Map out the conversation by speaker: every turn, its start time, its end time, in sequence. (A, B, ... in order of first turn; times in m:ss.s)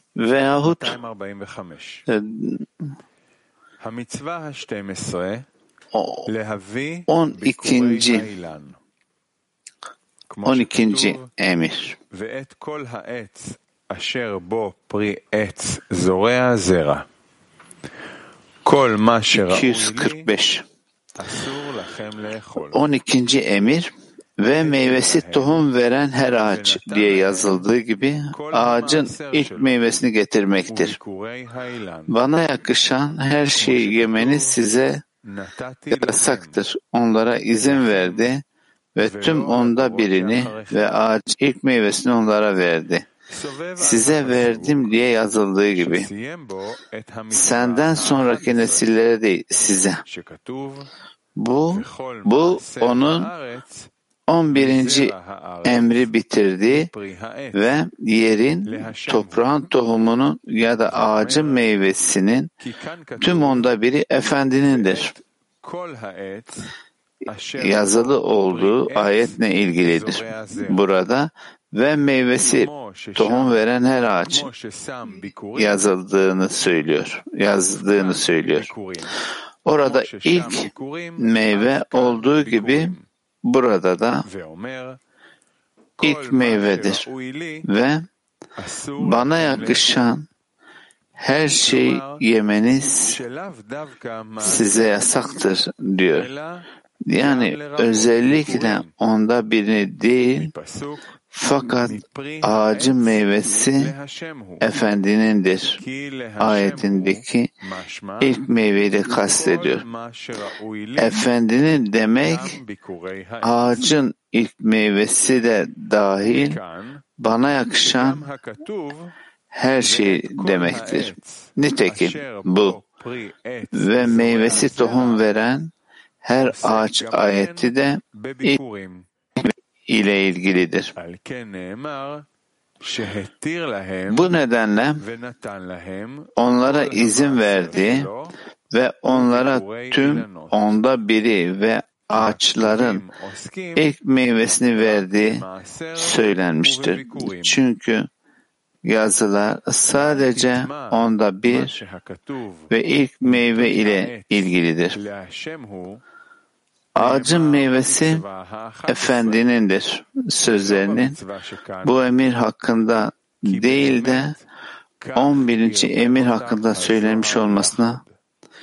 0:00.2-0:01.0 A
0:00.6-0:02.0 B
0:02.1-0:02.7 A
0:03.8-0:05.5 B
0:05.9-0:06.3 A
0:06.3-0:08.8 B
0:07.1-0:08.3 A
0:10.3-0:11.3 B
0:10.4-0:12.0 A
0:12.1-0:17.1 B
0:18.6-0:20.3 B
0:19.3-0:20.6 A
0:21.2-0:22.8 B
0:22.7-0:31.0 A
0:24.6-0:25.6 B
0:26.3-0:27.7 B
0:28.3-0:29.7 B
0:30.7-0:32.1 B
0:32.1-0:35.0 A
0:33.6-0:34.6 B
0:35.3-0:36.6 B
0:35.9-0:38.4 A
0:37.6-0:38.3 B
0:39.0-0:43.1 A
0:39.0-0:40.8 B
0:43.3-0:45.0 B
0:43.8-0:46.1 A
0:45.8-0:48.8 B
0:47.3-0:50.0 A
0:50.1-0:50.9 B
0:51.4-0:53.3 A
0:51.7-0:53.9 B
0:54.3-0:55.1 A
0:54.5-0:57.6 B
0:55.6-0:56.9 A
0:57.5-1:02.5 A
0:58.7-0:59.5 B
1:00.8-1:01.6 B
1:02.6-1:06.7 B
1:03.2-1:05.1 A
1:07.3-1:10.8 B
1:07.6-1:14.5 A
1:12.4-1:13.6 B
1:14.3-1:15.9 B
1:15.6-1:18.7 A
1:17.9-1:19.1 B
1:19.6-1:24.2 A
1:19.8-1:23.1 B
1:24.2-1:25.0 B
1:26.0-1:27.6 B
1:26.0-1:27.1 A
1:27.6-1:28.1 A
1:28.6-1:30.1 B
1:29.0-1:30.3 A
1:31.2-1:33.2 A
1:31.6-1:32.2 B
1:32.9-1:35.4 B
1:34.4-1:36.3 A
1:36.2-1:38.9 B
1:37.1-1:40.5 A
1:40.4-1:44.7 B
1:41.3-1:43.9 A
1:44.6-1:45.8 A
1:45.8-1:48.4 B
1:46.4-1:47.5 A
1:48.2-1:49.8 A
1:49.0-1:51.2 B
1:51.0-1:52.6 A
1:52.2-1:53.9 B
1:53.4-1:56.6 A
1:56.2-1:57.0 B
1:57.2-1:58.3 A
1:57.8-1:59.1 B
1:59.5-2:02.8 A
1:59.8-2:05.2 B
2:03.7-2:05.7 A
2:06.2-2:08.6 A
2:06.4-2:09.1 B
2:09.4-2:10.9 A
2:11.0-2:12.3 B
2:12.8-2:14.3 B
2:14.1-2:15.0 A
2:15.0-2:18.3 B
2:16.4-2:18.1 A
2:18.7-2:23.0 A
2:19.1-2:20.6 B
2:22.1-2:23.8 B
2:23.8-2:25.4 A
2:24.8-2:27.6 B
2:26.0-2:28.1 A
2:28.8-2:31.8 A
2:29.9-2:32.7 B
2:32.7-2:35.0 A
2:33.2-2:36.0 B
2:37.0-2:38.2 A
2:37.0-2:39.5 B
2:38.9-2:41.2 A
2:40.5-2:42.0 B
2:41.8-2:44.4 A
2:43.4-2:44.4 B
2:45.0-2:48.2 B
2:45.2-2:48.0 A